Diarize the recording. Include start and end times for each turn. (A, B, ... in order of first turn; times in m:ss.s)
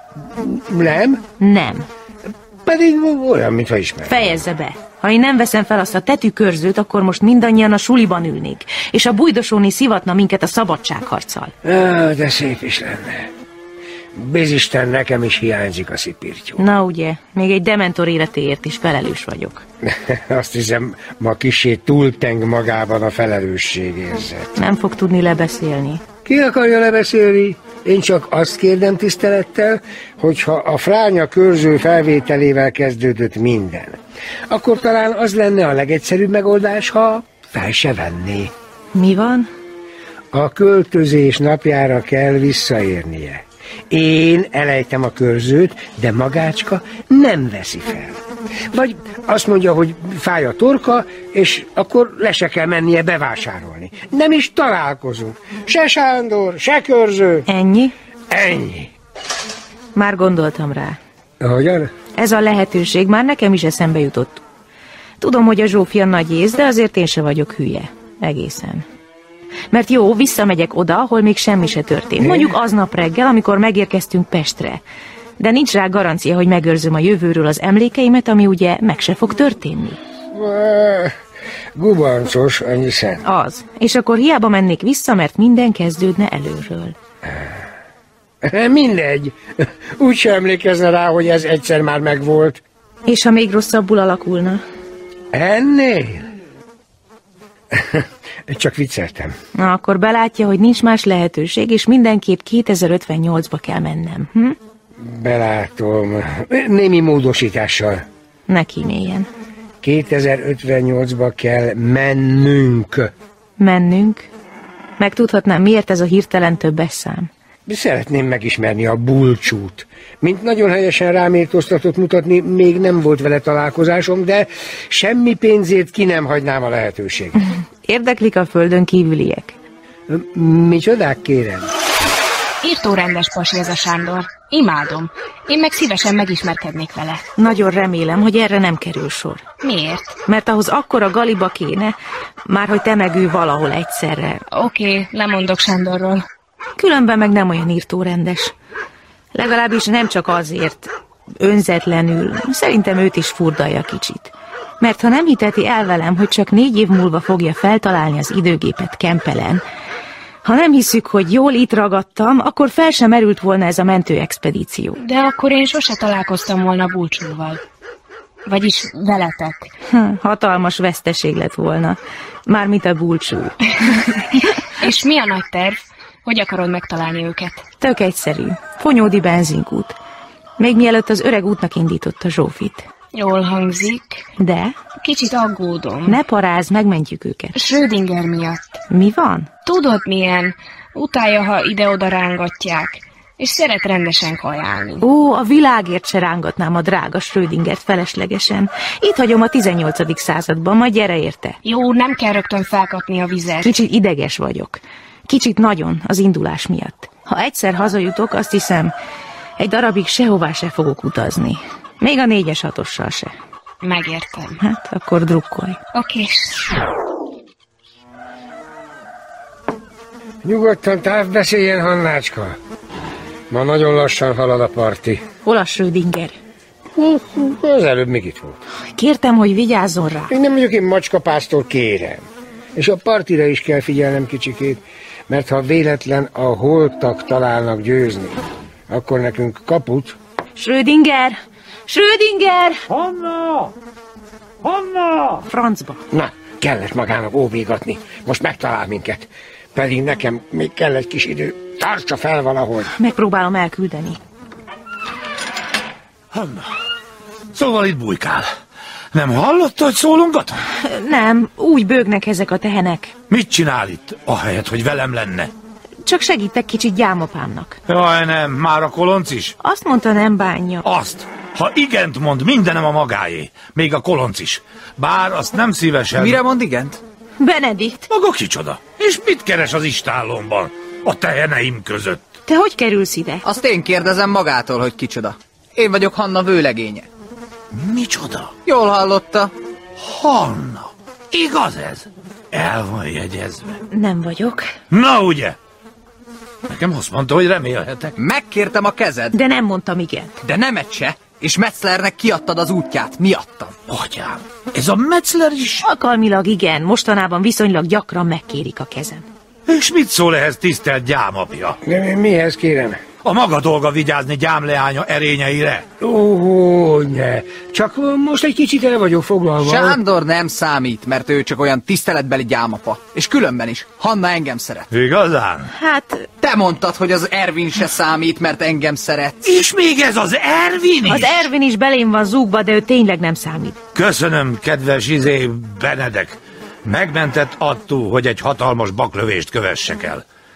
0:00.4-0:01.2 A
0:01.4-0:01.8 B
0:02.6-0:04.4 A
0:04.0-0:11.5 B
0:11.6-0:13.3 A
0:14.1-0:16.6 A
0:16.6-0:19.6 B
0:19.8-0:24.6 A
0:24.6-0:26.0 B
0:26.2-0:38.5 A
0:38.9-0:39.5 B
0:40.3-0:48.2 A
0:48.7-0:57.5 A
0:57.5-0:57.9 B
0:58.3-0:58.9 A
0:59.9-1:01.0 B
1:01.4-1:01.9 A
1:02.1-1:04.4 B
1:05.2-1:08.8 B
1:09.7-1:14.8 B
1:12.2-1:12.5 A
1:15.4-1:20.0 B
1:20.3-1:21.1 A
1:21.8-1:23.2 A
1:23.2-1:27.0 B
1:27.2-1:27.6 A
1:28.4-1:32.6 A
1:33.0-1:34.6 B
1:35.3-1:36.2 A
1:37.7-1:39.3 A
1:39.6-1:44.6 B
1:45.0-1:48.0 A
1:48.5-1:49.3 B
1:49.8-1:53.1 A
1:53.6-1:54.3 B
1:55.0-1:57.3 B
1:57.6-2:07.4 A
2:07.4-2:09.6 B
2:10.1-2:11.7 A
2:12.6-2:17.2 C
2:17.4-2:19.4 B
2:19.6-2:20.2 C
2:20.2-2:21.9 B
2:22.4-2:24.4 B
2:24.5-2:26.2 C
2:26.8-2:28.5 B
2:29.3-2:39.6 B
2:40.4-2:45.0 B
2:45.0-2:47.6 C
2:48.4-2:49.7 C
2:49.9-2:53.6 B
2:54.8-2:57.6 C
2:57.8-3:00.0 B
3:00.6-3:02.8 B
3:03.1-3:04.2 C
3:04.4-3:04.7 B
3:05.0-3:06.2 C
3:06.0-3:07.6 B
3:07.5-3:08.8 C
3:08.9-3:09.5 B
3:09.6-3:15.0 C
3:15.0-3:21.6 B
3:21.6-3:23.8 C
3:23.6-3:28.9 B
3:29.6-3:33.3 B
3:33.8-3:34.6 C
3:34.6-3:35.8 B
3:35.9-3:36.6 C
3:40.4-3:42.6 A
3:43.5-3:45.2 A
3:45.4-3:46.4 B
3:47.0-3:48.6 A
3:48.9-3:50.3 B
3:50.3-3:52.2 A
3:52.8-4:00.2 A
4:00.6-4:01.4 B
4:01.9-4:02.8 B
4:02.9-4:03.7 D
4:04.6-4:05.4 D
4:05.4-4:06.0 B
4:06.1-4:12.9 A
4:13.0-4:14.2 B
4:16.3-4:16.7 D
4:17.5-4:18.5 D
4:19.1-4:20.6 D
4:20.8-4:23.1 B
4:23.3-4:25.5 D
4:26.0-4:27.8 B
4:27.9-4:29.5 D
4:29.6-4:30.8 B
4:30.8-4:36.4 D
4:36.1-4:37.0 E
4:37.4-4:38.1 B
4:38.1-4:42.2 D
4:42.5-4:43.4 B
4:43.4-4:47.1 E
4:47.7-4:48.5 D
4:48.6-4:49.5 E
4:50.0-4:53.8 D
4:53.9-4:54.7 B
4:54.9-4:55.6 D
4:56.7-4:58.1 D
4:58.2-4:59.3 E
4:59.3-5:00.3 B
5:00.4-5:03.7 E
5:03.9-5:05.8 D
5:05.8-5:09.2 B
5:09.7-5:11.8 D
5:11.8-5:13.0 A
5:13.2-5:15.8 D
5:16.0-5:20.0 A
5:19.6-5:24.9 E
5:24.9-5:25.7 D
5:25.7-5:26.2 B
5:26.4-5:29.4 E
5:29.4-5:31.5 D
5:31.0-5:33.8 B
5:33.9-5:40.2 D